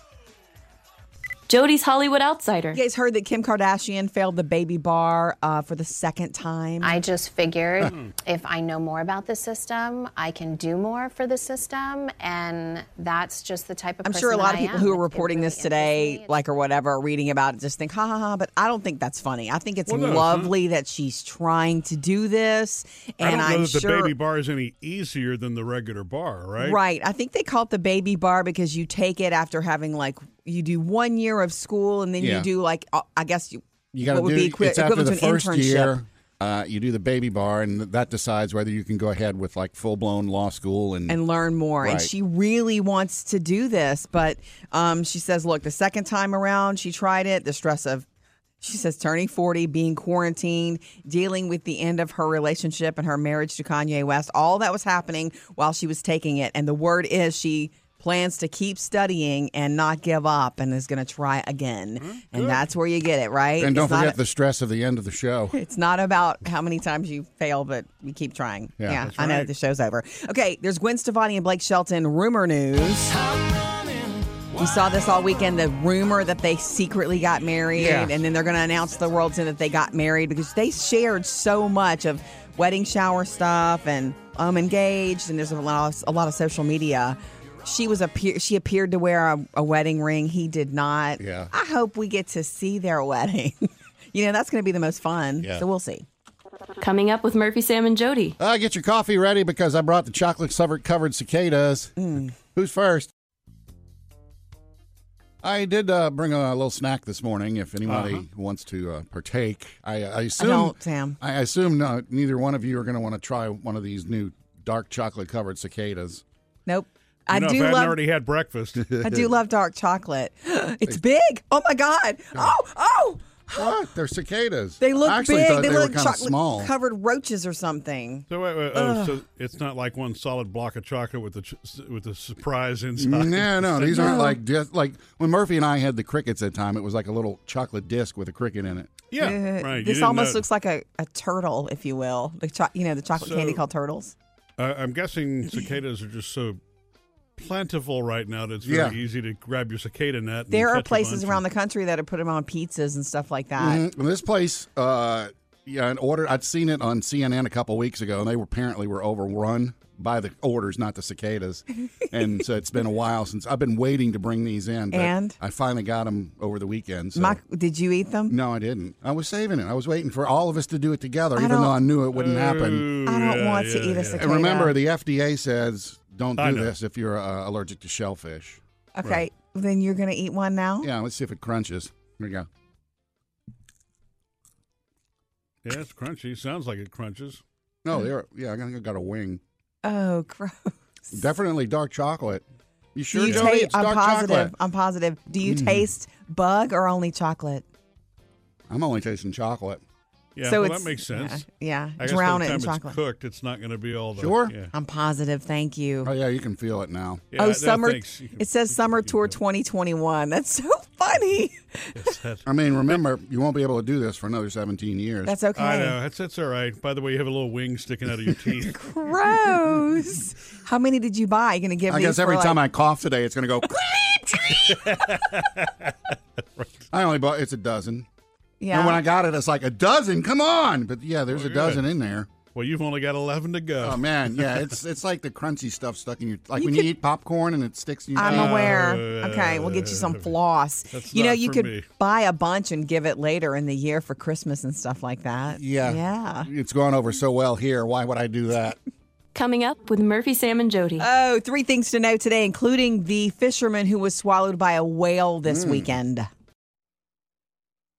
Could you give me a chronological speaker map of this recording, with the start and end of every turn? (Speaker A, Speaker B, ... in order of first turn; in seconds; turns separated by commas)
Speaker A: 1.5-2.8, Speaker B: 2.7-7.0, Speaker C: 6.8-16.3, Speaker B: 14.0-24.1, Speaker D: 19.9-20.5, Speaker D: 23.2-26.8, Speaker B: 26.6-36.0, Speaker E: 32.2-32.5, Speaker E: 33.9-41.2, Speaker B: 41.1-48.1, Speaker E: 41.8-42.1, Speaker B: 48.6-64.2, Speaker D: 62.0-62.6, Speaker E: 63.6-65.5, Speaker B: 65.5-73.2, Speaker E: 68.8-69.1, Speaker D: 69.0-69.5, Speaker B: 74.5-96.0, Speaker D: 77.8-78.1, Speaker E: 91.2-91.5, Speaker A: 96.8-98.4, Speaker E: 98.4-103.1, Speaker B: 102.0-102.3, Speaker E: 105.4-116.2, Speaker D: 107.9-108.2, Speaker B: 110.4-111.2, Speaker B: 116.7-118.0, Speaker D: 117.3-118.9, Speaker E: 118.9-119.3, Speaker B: 119.0-123.7, Speaker E: 123.5-126.7, Speaker B: 124.8-129.2, Speaker D: 128.3-134.2, Speaker E: 133.0-139.0, Speaker B: 133.9-134.4, Speaker D: 139.1-140.4, Speaker B: 139.2-144.2, Speaker D: 143.2-143.6, Speaker D: 144.6-146.6, Speaker D: 147.4-151.4, Speaker E: 148.6-149.0, Speaker B: 150.5-153.8, Speaker E: 153.6-167.4, Speaker B: 164.9-165.4, Speaker B: 167.2-168.3, Speaker E: 168.3-172.9, Speaker B: 171.4-171.8, Speaker D: 172.1-174.3, Speaker B: 173.1-174.8, Speaker E: 174.2-178.6, Speaker D: 176.4-176.7, Speaker B: 178.9-180.9, Speaker E: 180.8-182.5, Speaker D: 185.7-187.4, Speaker E: 187.8-189.4, Speaker B: 189.8-190.7, Speaker E: 191.1-192.4, Speaker E: 192.9-194.5, Speaker B: 193.1-197.7, Speaker E: 195.4-195.9, Speaker E: 198.7-199.8, Speaker D: 200.4-201.4, Speaker B: 200.4-203.0, Speaker D: 202.0-204.7, Speaker E: 204.2-204.5, Speaker B: 204.7-206.1, Speaker E: 206.0-207.2, Speaker D: 207.3-209.3, Speaker B: 207.4-212.1, Speaker D: 211.9-212.5, Speaker E: 212.5-215.3, Speaker B: 215.2-216.0, Speaker D: 215.6-218.9, Speaker B: 218.7-222.6, Speaker E: 221.9-224.9, Speaker D: 224.6-226.7, Speaker E: 226.9-228.1, Speaker B: 228.6-229.0, Speaker E: 228.7-232.3, Speaker D: 231.3-231.8, Speaker D: 232.6-234.6, Speaker E: 233.8-239.0, Speaker B: 236.6-236.9, Speaker B: 238.2-246.5, Speaker D: 238.2-240.3, Speaker D: 240.9-241.9, Speaker E: 245.5-248.8, Speaker A: 249.3-251.1, Speaker B: 251.0-256.3, Speaker E: 255.5-255.9